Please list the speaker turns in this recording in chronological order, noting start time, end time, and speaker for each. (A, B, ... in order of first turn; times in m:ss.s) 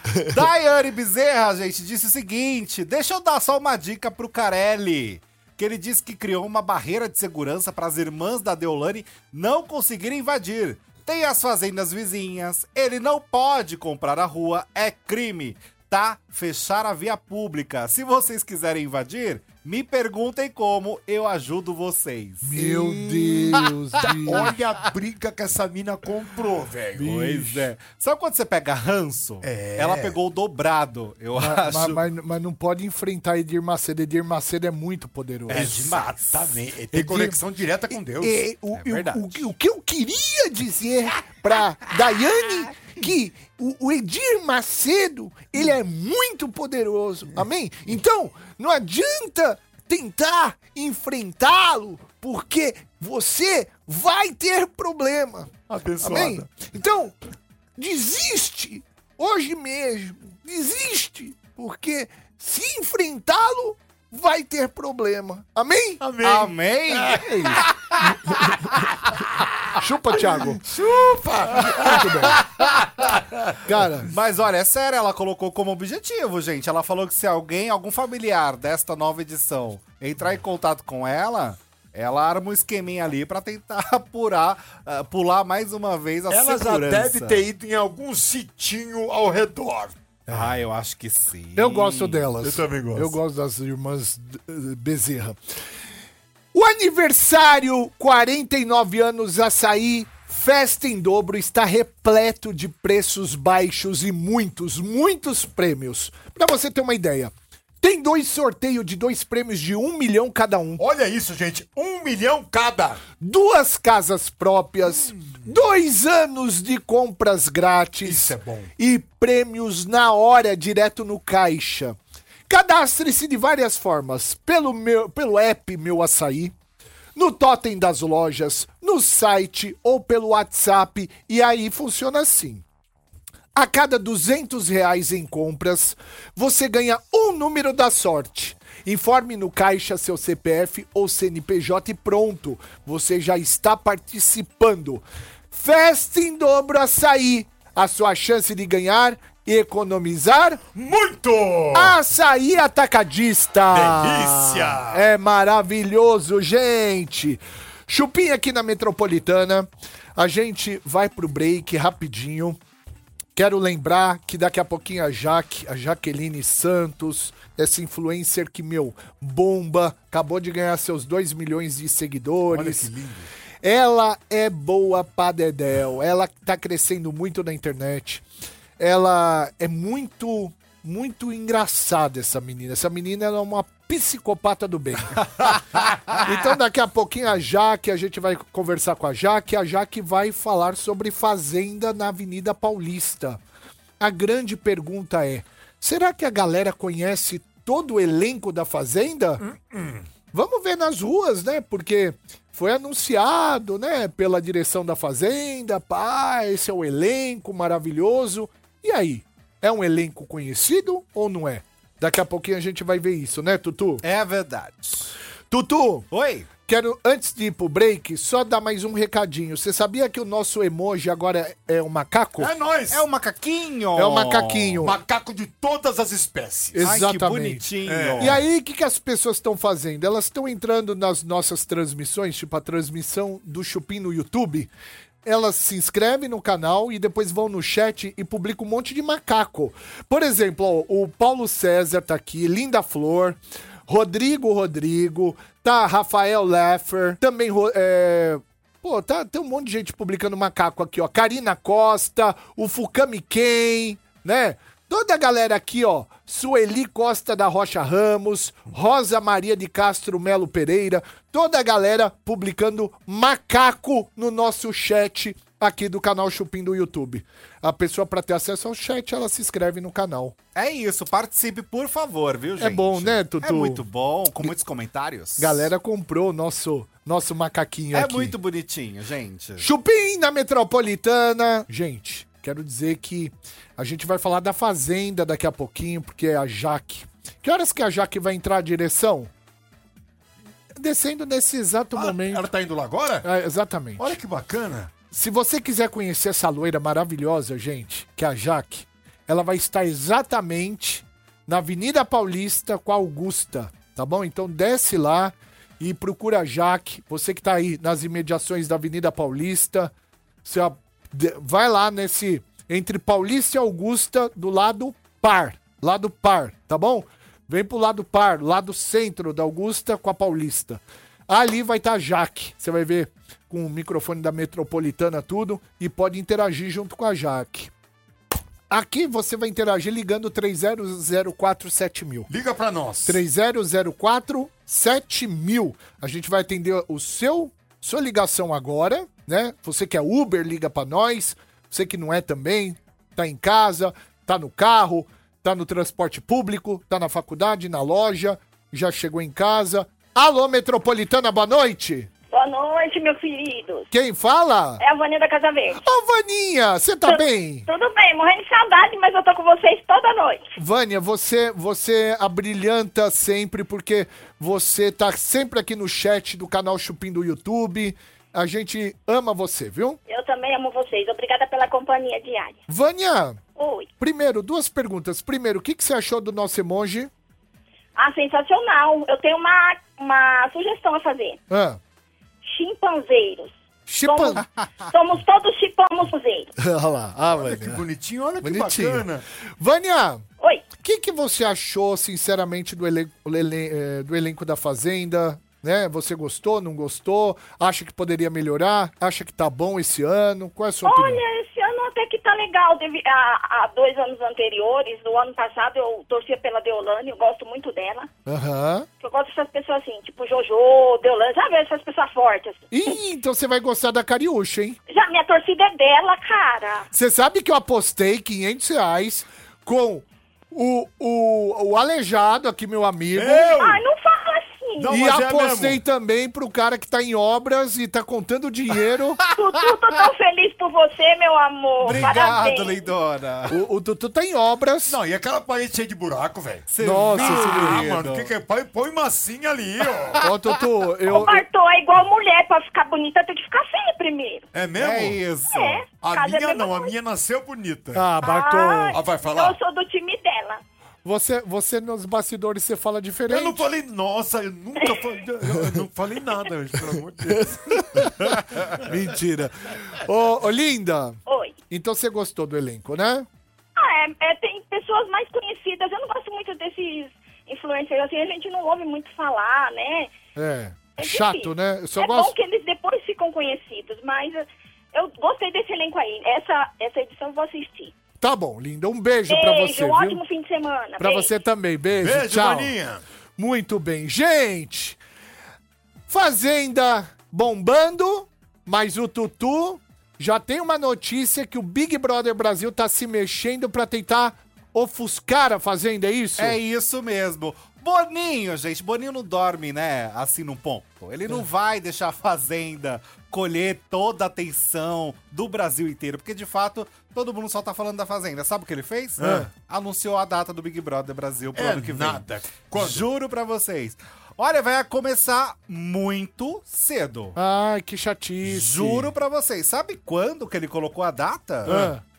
0:00.2-0:22.9 A
0:22.4-0:24.5 B
0:22.8-0:23.2 C
0:24.2-0:27.4 C
0:24.3-0:24.6 A
0:27.0-0:32.0 A
0:27.1-0:27.5 B
0:29.4-0:30.2 C
0:31.4-0:35.7 B
0:35.5-0:36.5 A
0:35.5-0:38.5 C
0:36.9-0:37.4 B
0:37.9-0:57.2 B
0:38.7-0:39.4 A
0:55.7-0:56.7 C
0:57.8-1:06.0 B
1:06.0-1:07.3 C
1:06.2-1:07.7 A
1:07.1-1:07.6 B
1:09.8-1:10.6 B
1:10.3-1:13.6 C
1:11.8-1:12.4 B
1:12.4-1:12.8 A
1:13.6-1:14.1 B
1:14.1-1:27.4 A
1:26.3-1:29.9 C
1:30.3-1:32.2 A
1:31.6-1:35.4 B
1:32.4-1:33.2 C
1:36.5-1:50.8 B
1:50.8-1:53.0 C
1:53.2-2:02.0 B
1:55.1-1:55.4 C
1:58.0-1:58.7 C
2:02.5-2:06.5 B
2:07.2-2:12.6 B
2:13.6-2:30.6 B
2:30.8-2:32.0 C
2:31.7-2:42.6 B
2:33.7-2:35.0 C
2:43.4-2:52.9 B
2:52.5-2:53.3 C
2:53.6-2:58.2 B
2:58.8-3:05.2 B
3:06.2-3:13.4 B
3:14.0-3:19.4 B
3:19.4-3:20.0 C
3:20.3-3:34.0 B
3:34.0-3:35.1 A
3:35.5-3:36.1 B
3:36.1-3:36.5 A
3:36.7-3:42.5 B
3:42.4-3:43.0 C
3:42.9-3:44.8 A
3:44.0-3:45.0 B
3:44.8-3:46.8 C
3:46.7-3:47.6 B
3:46.8-3:48.4 A
3:47.9-3:48.4 C
3:48.2-3:54.7 B
3:55.2-4:30.4 B
4:30.6-4:35.7 A
4:32.6-4:33.8 B
4:35.4-4:38.3 B
4:37.9-4:39.7 A
4:39.6-4:49.3 B
4:50.8-4:52.5 B
4:52.0-4:53.2 C
4:53.2-4:54.2 B
4:54.0-4:54.9 C
4:55.1-5:09.9 B
5:10.4-5:27.7 B
5:28.7-5:32.3 B
5:32.3-5:33.2 C
5:33.0-5:52.1 B
5:52.3-5:53.9 D
5:53.9-5:54.8 B
5:54.8-5:55.8 D
5:55.8-5:57.6 B
5:57.1-6:00.5 D
6:00.6-6:10.0 B
6:10.1-6:12.6 D
6:12.7-6:13.4 B
6:13.6-6:13.9 D
6:14.0-6:17.1 B
6:18.0-6:21.4 D
6:21.5-6:21.8 B
6:22.4-6:23.5 D
6:23.9-6:24.4 B
6:24.0-6:26.5 D
6:26.6-6:27.8 B
6:27.3-6:29.2 C
6:28.4-6:29.1 B
6:29.6-6:30.2 B
6:30.4-6:30.6 D
6:30.8-6:41.2 B
6:40.8-6:48.1 D
6:48.3-6:48.9 B
6:49.0-6:52.7 D
6:52.7-6:54.8 B
6:54.9-6:56.9 D
6:56.9-7:03.5 B
7:03.1-7:03.8 C
7:03.5-7:05.0 D
7:04.8-7:05.8 C
7:04.9-7:09.2 B
7:09.4-7:12.9 D
7:09.4-7:10.1 A
7:11.8-7:13.6 A
7:13.5-7:15.0 B
7:14.9-7:20.2 C
7:16.7-7:18.3 A
7:16.8-7:17.9 B
7:20.2-7:21.4 B
7:21.1-7:24.5 D
7:24.5-7:25.2 C
7:24.8-7:25.8 A
7:25.5-7:26.9 D
7:26.0-7:28.1 C
7:27.9-7:29.0 B
7:28.2-7:30.6 D
7:28.9-7:29.6 C
7:31.0-7:33.7 B
7:33.3-7:38.9 C
7:37.4-7:41.2 B
7:41.3-7:41.6 D
7:41.7-7:43.3 B
7:43.8-7:50.1 D
7:50.4-7:52.3 B
7:51.0-7:57.9 D
7:58.2-8:00.2 B
7:59.3-8:01.3 D
8:01.0-8:02.8 B
8:02.0-8:03.0 C
8:03.4-8:05.0 B
8:06.1-8:16.6 B
8:16.4-8:37.4 A
8:29.2-8:29.5 C
8:29.2-8:29.5 B
8:31.6-8:33.1 C
8:37.4-8:39.1 B
8:38.4-8:41.8 A
8:41.6-8:41.9 C
8:41.6-8:42.0 B